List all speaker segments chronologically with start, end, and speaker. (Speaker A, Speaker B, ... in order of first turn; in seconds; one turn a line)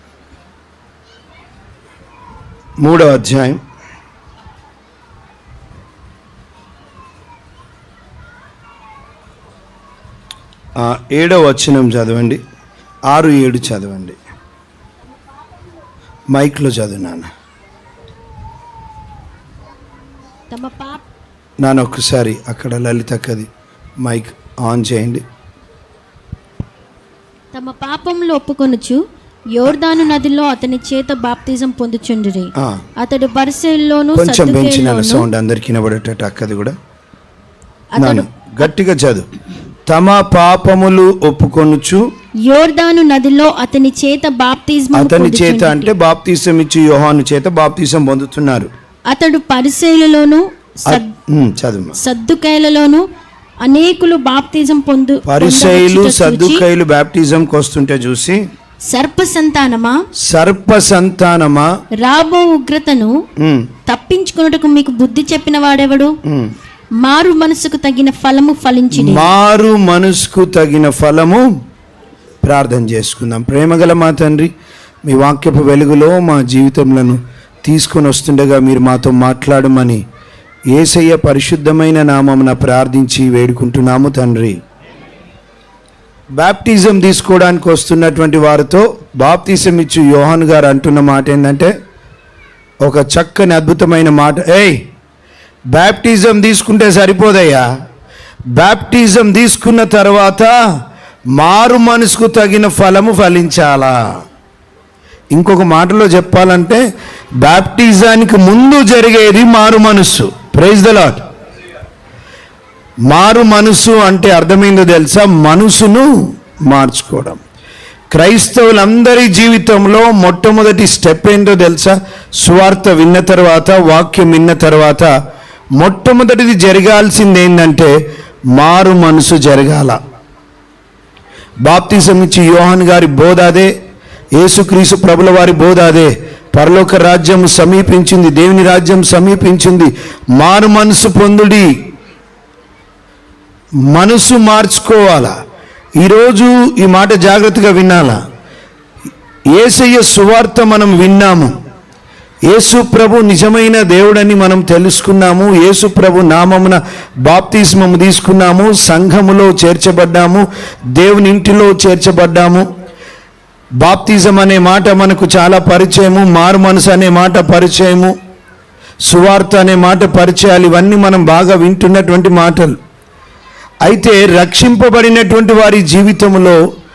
Speaker A: 2.8-3.6
Speaker A: 10.8-12.4
Speaker A: 13.1-14.2
Speaker A: 16.3-17.3
Speaker B: 20.5-21.0
Speaker A: 21.6-23.5
Speaker A: 24.0-25.2
Speaker B: 27.5-29.0
Speaker B: 29.5-35.2
Speaker A: 34.1-36.7
Speaker B: 37.9-38.3
Speaker A: 38.0-39.3
Speaker A: 39.9-42.0
Speaker B: 42.4-45.9
Speaker A: 44.9-48.7
Speaker B: 49.1-51.1
Speaker A: 50.9-52.0
Speaker B: 52.0-53.0
Speaker B: 53.6-56.6
Speaker A: 55.2-58.4
Speaker B: 58.9-59.9
Speaker A: 60.3-61.7
Speaker B: 62.0-63.1
Speaker A: 63.4-63.7
Speaker B: 63.9-66.1
Speaker B: 67.0-69.3
Speaker A: 68.9-71.4
Speaker A: 72.4-74.5
Speaker A: 75.0-80.0
Speaker A: 80.7-84.6
Speaker A: 86.3-91.7
Speaker A: 92.8-94.8
Speaker A: 95.7-97.7
Speaker A: 98.5-100.5
Speaker A: 101.3-104.0
Speaker A: 105.3-106.8
Speaker A: 107.4-111.2
Speaker A: 113.1-116.1
Speaker A: 116.7-117.4
Speaker A: 118.1-125.1
Speaker A: 125.8-127.9
Speaker A: 128.5-130.0
Speaker A: 131.6-133.7
Speaker A: 134.3-141.7
Speaker A: 143.9-145.3
Speaker A: 146.0-148.2
Speaker A: 149.5-151.5
Speaker A: 152.5-162.7
Speaker A: 163.8-168.1
Speaker A: 169.1-172.8
Speaker A: 173.8-176.6